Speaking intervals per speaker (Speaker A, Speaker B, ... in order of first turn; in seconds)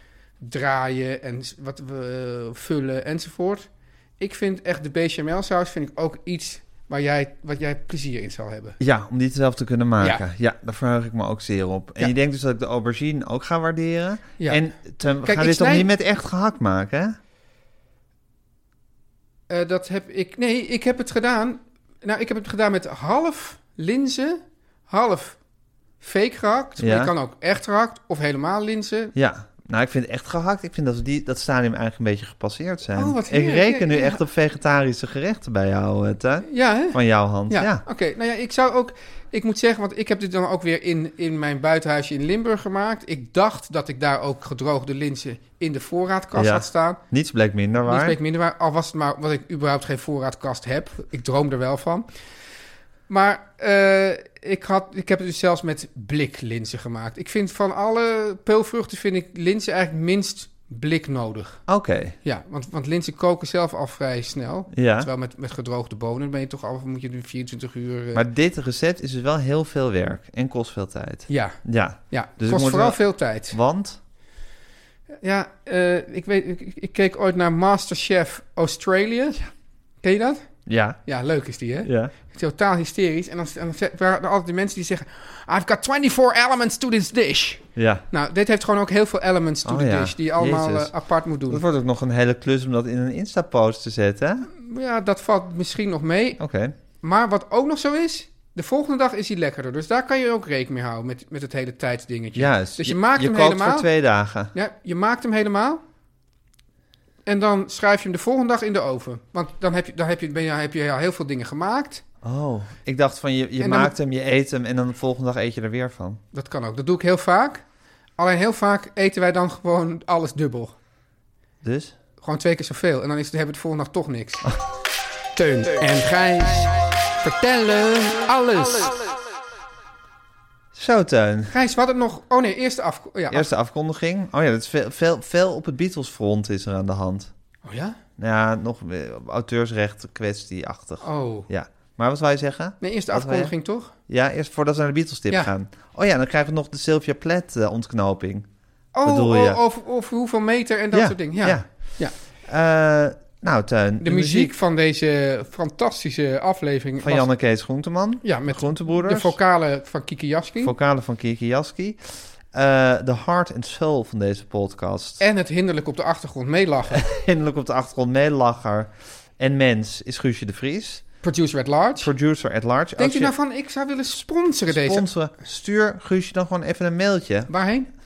Speaker A: 0.4-8.8, 15.2-15.9, 19.5-25.4, 26.0-29.1, 33.0-34.2, 36.5-37.0, 37.5-47.0, 47.9-52.1, 53.1-61.6, 62.2-68.2, 71.3-71.6, 72.1-73.6, 75.2-79.4, 80.0-80.5, 81.0-91.6, 94.5-96.4, 97.0-103.9, 104.5-105.8, 107.3-112.0, 113.6-113.9, 116.3-117.6, 118.2-120.8, 122.2-124.5, 125.4-129.0, 131.5-133.5, 137.7-138.0, 141.0-141.5, 142.8-143.9, 148.9-152.1, 154.0-157.3, 158.2-160.7, 165.2-167.0, 171.2-172.1, 173.0-175.1, 177.5-177.9
Speaker B: 8.8-17.2, 26.8-27.1, 29.1-37.8, 46.4-48.2, 61.7-62.2, 64.7-65.1, 68.1-74.0, 80.7-81.0, 81.8-82.1, 87.8-88.0, 89.7-90.9, 91.5-94.5, 96.4-96.7, 102.3-104.5, 112.2-116.2, 121.6-122.0, 130.7-131.5, 133.3-137.3, 138.2-143.6, 144.1-148.5, 149.0-149.6, 150.9-154.6, 157.0-159.4, 160.6-165.2, 166.9-171.1, 172.0-173.3, 174.7-177.5